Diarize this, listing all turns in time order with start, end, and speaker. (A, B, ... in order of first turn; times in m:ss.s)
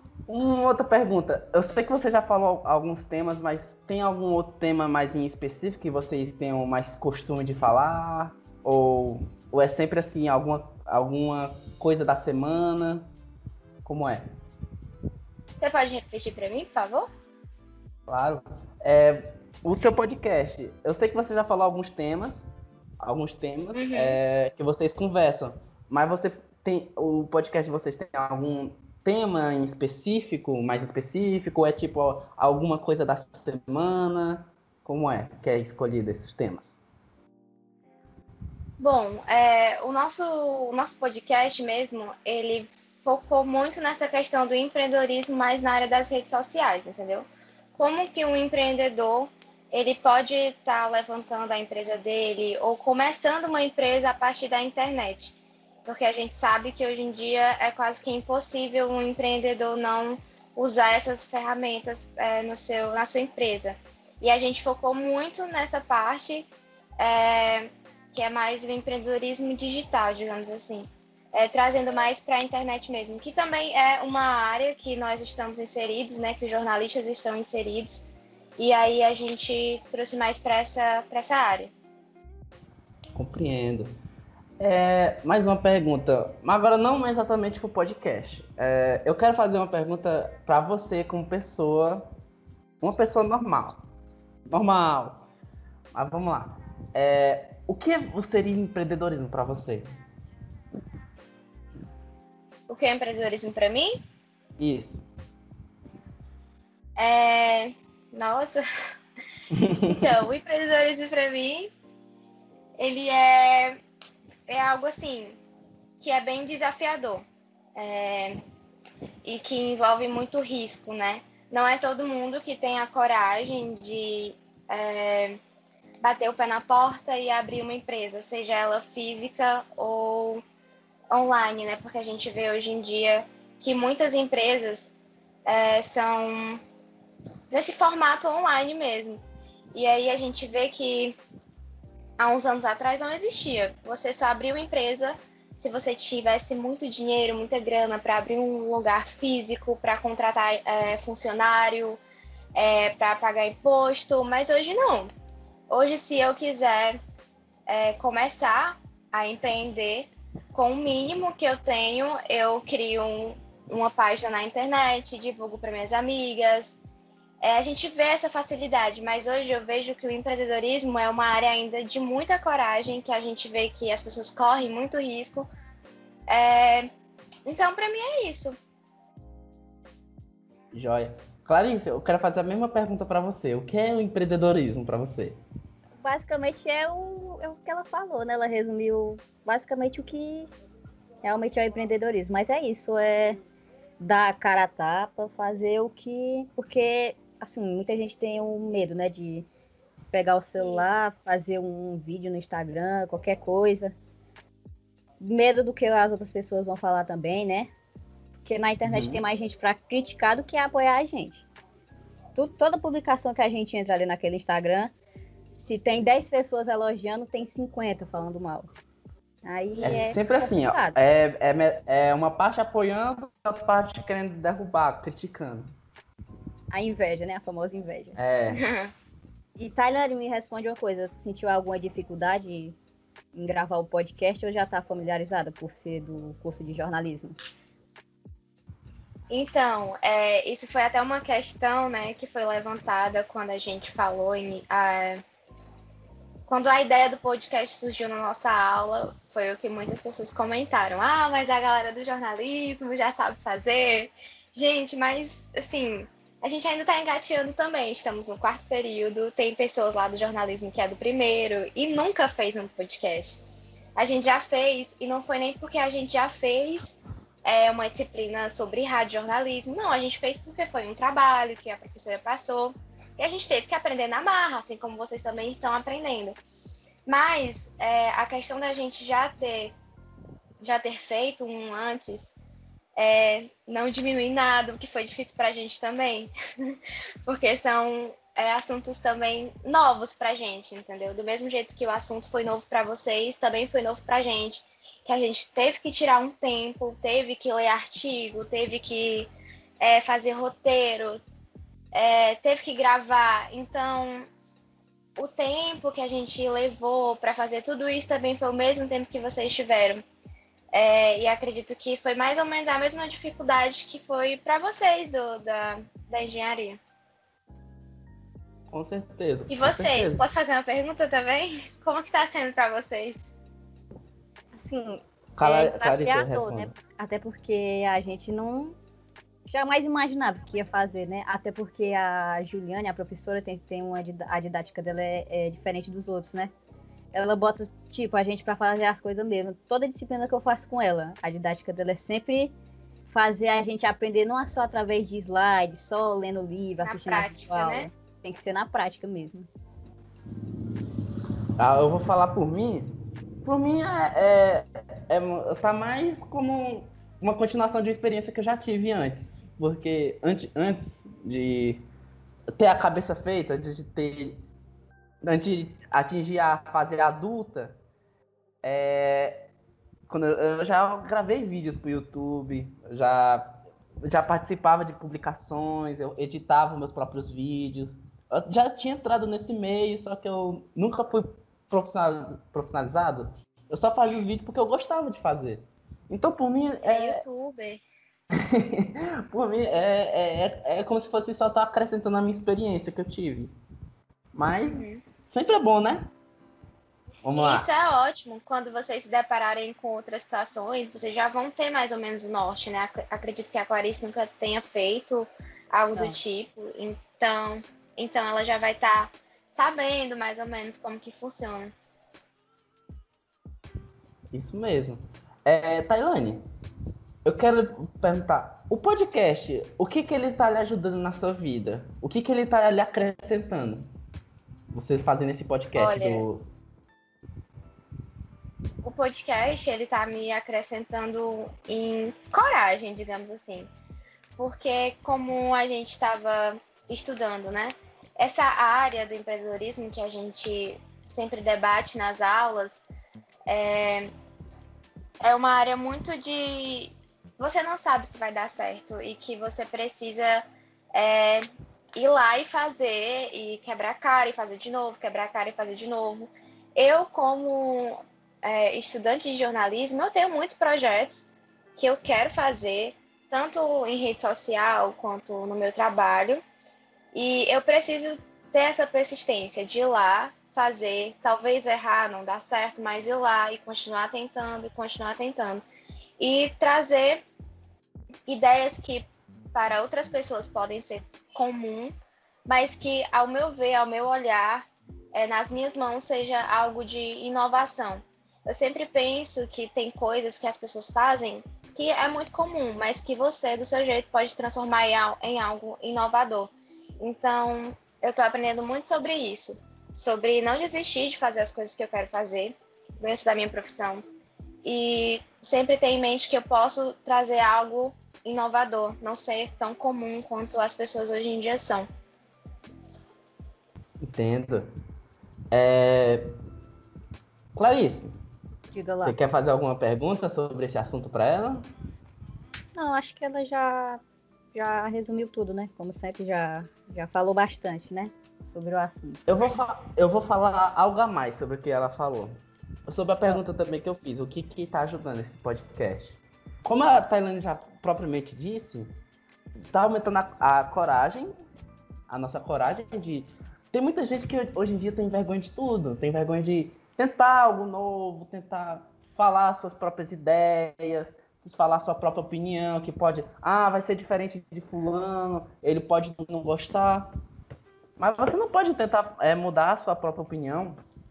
0:00.3-0:13.1 A
0:13.8-0:14.3 A
0:15.6-0:17.1 B
0:18.1-0:22.5 A
0:23.0-0:36.8 A
0:23.7-0:24.2 B
0:38.8-1:06.5 B
1:07.0-1:21.7 B
1:23.2-1:23.9 A
1:24.6-1:32.0 A
1:32.8-1:33.8 A
1:34.5-1:35.3 A
1:35.9-1:39.9 A
1:42.7-1:44.0 B
1:44.6-1:45.0 A
1:47.0-1:48.6 B
1:49.5-1:49.9 A
1:49.9-1:51.7 B
1:52.8-1:53.8 B
1:54.5-1:55.4 B
1:56.0-1:57.2 B
1:57.8-1:58.4 B
1:59.2-2:05.4 B
2:06.0-2:10.4 B
2:11.1-2:14.9 B
2:15.5-2:16.6 B
2:17.5-2:19.2 B
2:19.7-2:21.2 B
2:22.2-2:32.0 B
2:32.6-2:35.1 B
2:35.7-2:37.0 B
2:37.7-2:46.8 B
2:47.4-2:55.5 B
2:56.3-2:56.9 B
2:57.5-2:58.6 B
3:00.7-3:05.4 A
3:06.0-3:10.5 C
3:11.2-3:13.4 C
3:14.0-3:19.5 C
3:20.1-3:23.9 C
3:20.6-3:21.0 B
3:25.2-3:27.7 C
3:28.4-3:31.5 C
3:28.8-3:29.2 A
3:32.4-3:34.9 C
3:35.5-3:38.7 C
3:39.4-3:41.0 C
3:39.8-3:40.2 B
3:39.8-3:45.7 A
3:46.7-3:48.2 C
3:48.2-3:48.6 A
3:48.5-3:48.9 B
3:49.6-3:52.8 C
3:53.3-3:57.4 C
3:59.3-4:05.2 B
4:06.5-4:23.4 B
4:24.0-4:36.4 B
4:37.1-4:39.7 B
4:40.6-4:42.4 B
4:43.0-4:59.3 B
4:59.8-5:01.2 B
5:01.9-5:04.3 B
5:05.2-5:10.0 B
5:10.7-5:16.8 B
5:18.7-5:20.2 A
5:19.5-5:23.3 B
5:24.6-5:28.8 C
5:25.4-5:26.7 A
5:29.5-5:36.5 C
5:37.1-5:42.5 C
5:43.1-5:49.5 C
5:46.8-5:47.9 B
5:51.6-5:52.9 A
5:53.4-6:01.8 A
6:02.6-6:04.4 A
6:05.2-6:07.8 A
6:08.6-6:09.5 A
6:10.1-6:27.2 A
6:26.8-6:27.8 B
6:28.5-6:33.5 A
6:34.3-6:36.1 A
6:34.7-6:35.0 B
6:37.2-6:37.7 A
6:37.4-6:51.7 B
6:54.3-6:56.4 A
6:57.2-7:03.9 A
7:04.7-7:06.4 A
7:05.8-7:06.2 B
7:08.8-7:13.7 B
7:14.4-7:22.8 B
7:23.5-7:24.1 B
7:25.2-7:31.4 B
7:32.0-7:46.4 B
7:47.1-7:55.6 B
7:56.2-7:57.2 B
7:58.3-8:01.9 B
8:02.5-8:24.0 B
8:24.6-8:31.9 B
8:34.0-8:34.7 A
8:35.5-8:36.3 A
8:37.6-8:38.1 A
8:38.7-8:39.2 C
8:39.0-8:41.7 A
8:42.8-8:44.0 C
8:44.5-8:49.3 C
8:49.3-8:58.9 A
8:59.7-9:01.3 A
9:02.1-9:17.1 A
9:18.0-9:20.8 A